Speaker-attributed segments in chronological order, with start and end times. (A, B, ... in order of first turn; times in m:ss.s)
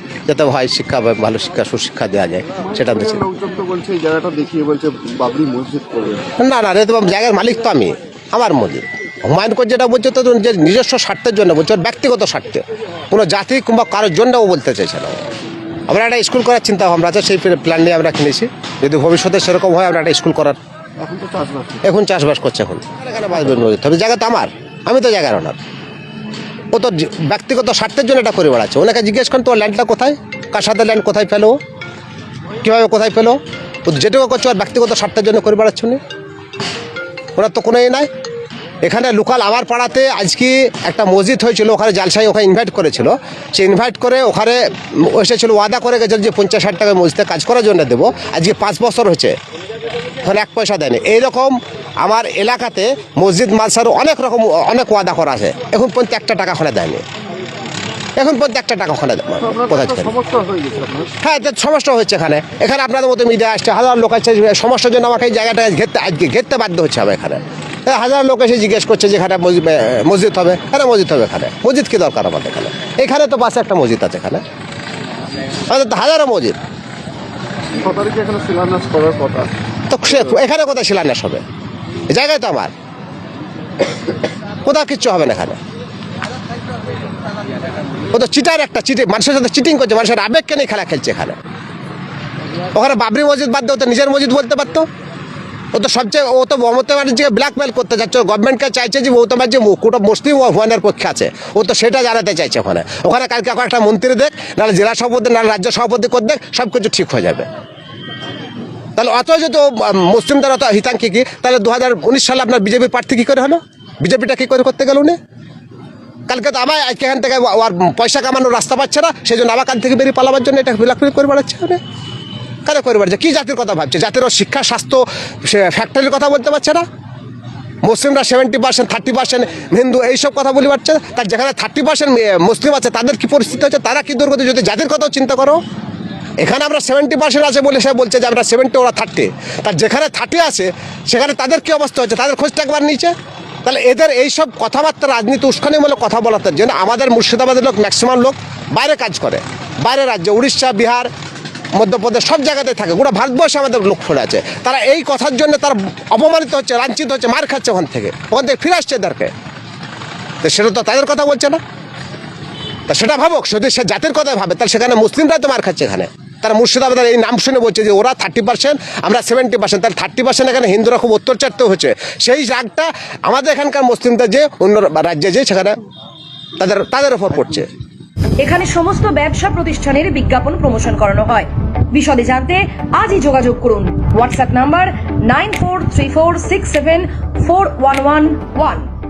0:00.2-0:03.2 A
0:02.6-0:06.3 B
0:06.4-0:15.2 A
0:15.9-0:20.6 A
0:21.0-0:21.8 B
0:21.8-0:25.6 A
0:26.7-0:31.6 A
0:32.6-0:36.0 A
0:37.4-0:38.1 A
0:38.8-0:49.3 A
0:50.2-0:57.0 A
0:58.2-1:00.1 A
0:59.4-1:01.2 B
1:01.2-1:14.4 A
1:15.7-1:16.6 A
1:17.8-1:19.5 B
1:19.9-1:21.4 A
1:22.1-1:22.7 A
1:24.6-1:25.6 A
1:28.1-1:31.4 A
1:32.7-1:34.9 A
1:35.7-1:47.5 A
1:49.0-1:55.2 A
1:56.3-2:01.8 A
2:02.6-2:06.8 A
2:07.8-2:15.6 A
2:16.4-2:23.1 A
2:23.6-2:31.1 A
2:31.7-2:39.3 A
2:40.4-2:41.6 A
2:42.9-2:55.8 A
2:56.6-2:57.7 A
2:58.4-3:08.9 C